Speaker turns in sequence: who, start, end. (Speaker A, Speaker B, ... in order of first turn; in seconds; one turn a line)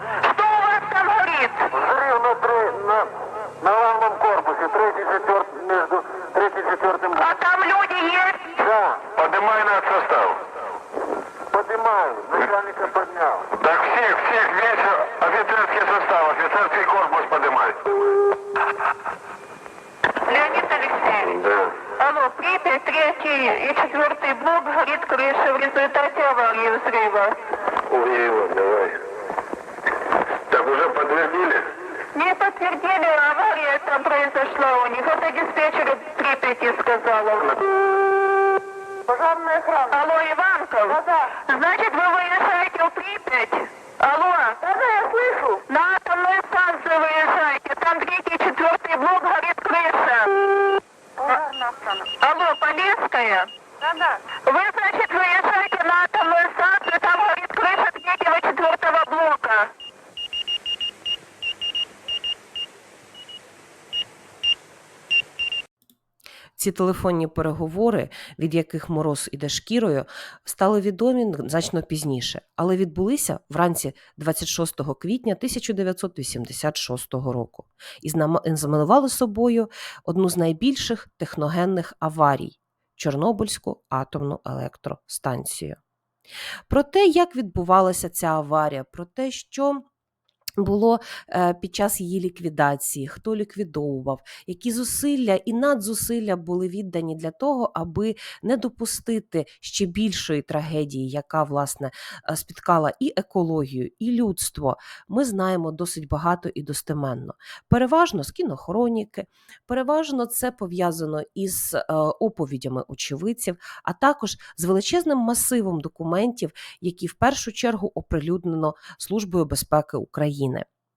Speaker A: 0.2-1.7
Speaker B: 1.7-7.3
Speaker A: 7.2-8.6
Speaker B: 8.6-9.0
Speaker C: 9.0-10.4
Speaker B: 11.5-13.5
Speaker C: 13.5-18.0
Speaker A: 20.2-21.4
Speaker C: 21.2-21.8
Speaker A: 21.9-27.4
Speaker C: 27.9-29.0
Speaker C: 30.5-31.7
Speaker A: 32.1-37.7
Speaker B: 39.1-40.0
Speaker A: 39.9-44.6
Speaker B: 40.9-41.4
Speaker B: 44.6-45.6
Speaker A: 45.7-50.3
Speaker B: 51.2-52.1
Speaker A: 52.2-53.5
Speaker B: 53.8-54.2
Speaker A: 54.4-59.7
Speaker D: 66.6-85.8
Speaker D: 86.7-89.8
Speaker D: 90.6-120.7